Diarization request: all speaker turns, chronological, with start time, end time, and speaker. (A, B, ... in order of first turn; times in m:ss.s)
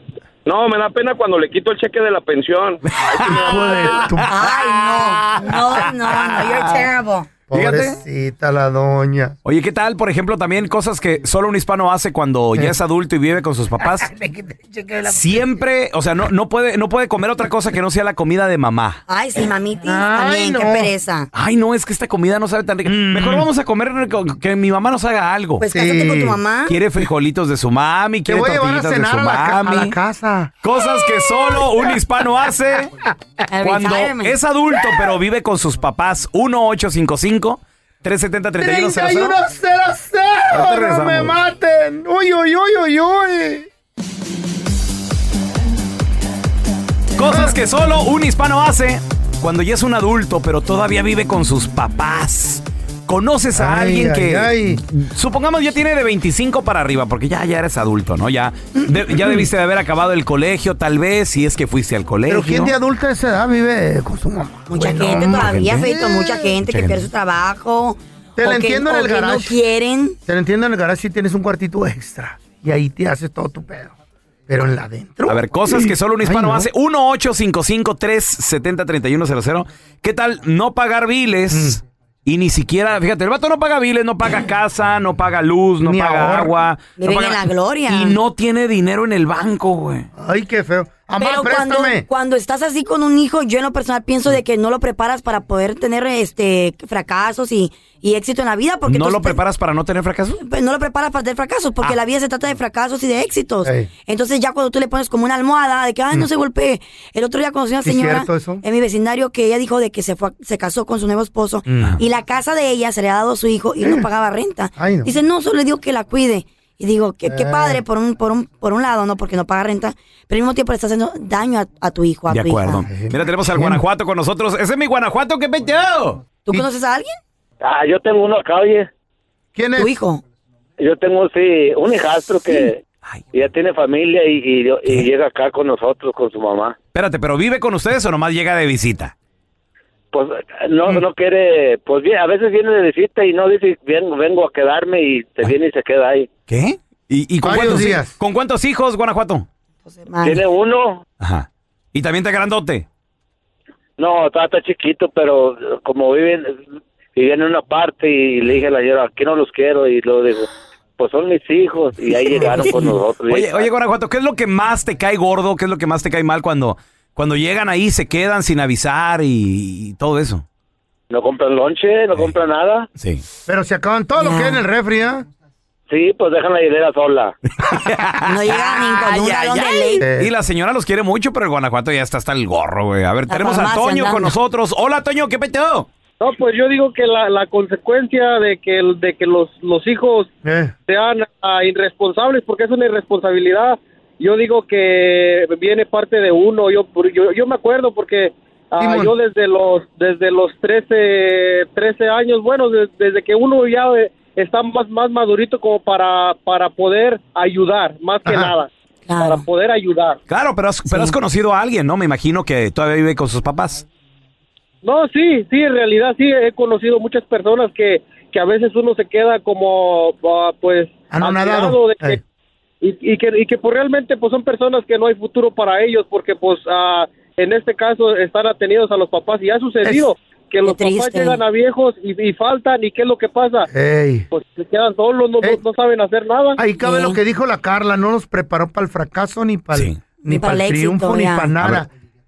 0:00.4-0:04.0 A
0:02.8-0:06.9 B
0:03.2-0:04.3 C
0:04.2-0:07.3 D
0:07.5-0:09.3 C
0:07.5-0:08.0 B
0:09.4-0:14.1 B
0:14.0-0:15.4 C
0:15.0-0:19.0 B
0:19.1-0:21.3 D
0:19.8-0:20.9 C
0:21.3-0:25.6 B
0:22.9-0:23.4 C
0:25.6-0:26.8 D
0:25.7-0:26.4 C
0:26.7-0:30.0 B
0:28.3-0:30.5 C
0:30.6-0:32.9 B
0:31.5-0:31.9 C
0:33.5-0:34.3 D
0:33.6-0:39.4 B
0:38.6-0:43.7 C
0:40.5-0:41.3 B
0:47.2-1:02.7 B
0:47.2-0:47.5 C
0:53.6-0:54.8 C
1:02.3-1:06.5 C
1:04.7-1:10.2 D
1:05.3-1:05.9 B
1:06.7-1:07.0 B
1:08.4-1:09.5 C
1:10.2-1:13.9 C
1:14.5-1:16.7 C
1:15.3-1:30.1 B
1:21.5-1:21.8 C
1:25.8-1:26.5 C
1:27.0-1:28.2 D
1:30.2-1:32.0 C
1:31.2-1:39.4 D
1:38.8-1:40.4 B
1:40.4-2:02.8 D
1:43.6-1:43.9 C
1:47.8-1:48.6 C
1:51.7-1:52.0 C
1:53.8-1:54.1 C
1:54.8-1:55.1 C
1:57.2-1:57.8 C
2:02.3-2:06.6 B
2:02.8-2:03.8 C
2:06.4-2:07.2 D
2:07.6-2:08.9 E
2:09.5-2:10.0 C
2:09.7-2:10.2 D
2:10.8-2:12.8 E
2:13.3-2:16.8 E
2:16.9-2:19.1 B
2:20.1-2:26.3 E
2:26.5-2:29.5 B
2:27.4-2:28.1 C
2:29.9-2:30.4 D
2:30.2-2:31.0 E
2:31.2-2:32.8 B
2:34.0-2:36.6 E
2:37.2-2:40.5 E
2:41.0-2:43.7 E
2:42.3-2:42.9 C
2:42.5-2:50.4 B
2:51.1-2:52.9 E
2:53.0-2:53.2 B
2:53.5-2:55.2 C
2:54.2-2:54.6 D
2:55.9-2:57.3 E
2:57.6-3:05.9 B
2:58.2-3:00.0 D
3:00.0-3:00.3 C
3:03.3-3:04.3 D
3:06.2-3:10.3 F
3:10.4-3:10.7 C
3:10.9-3:30.2 F
3:18.8-3:19.1 C
3:28.2-3:28.5 C
3:29.1-3:29.4 D
3:30.3-3:33.8 B
3:30.9-3:31.2 D
3:34.8-3:42.2 F
3:41.1-3:42.2 C
3:42.8-3:53.7 F
3:49.8-3:50.1 C
3:50.6-3:51.4 D
3:53.7-3:54.3 C
3:54.3-3:56.6 F
3:56.6-4:01.9 C
3:56.8-3:57.2 D
3:59.7-4:00.0 B
4:00.2-4:01.6 D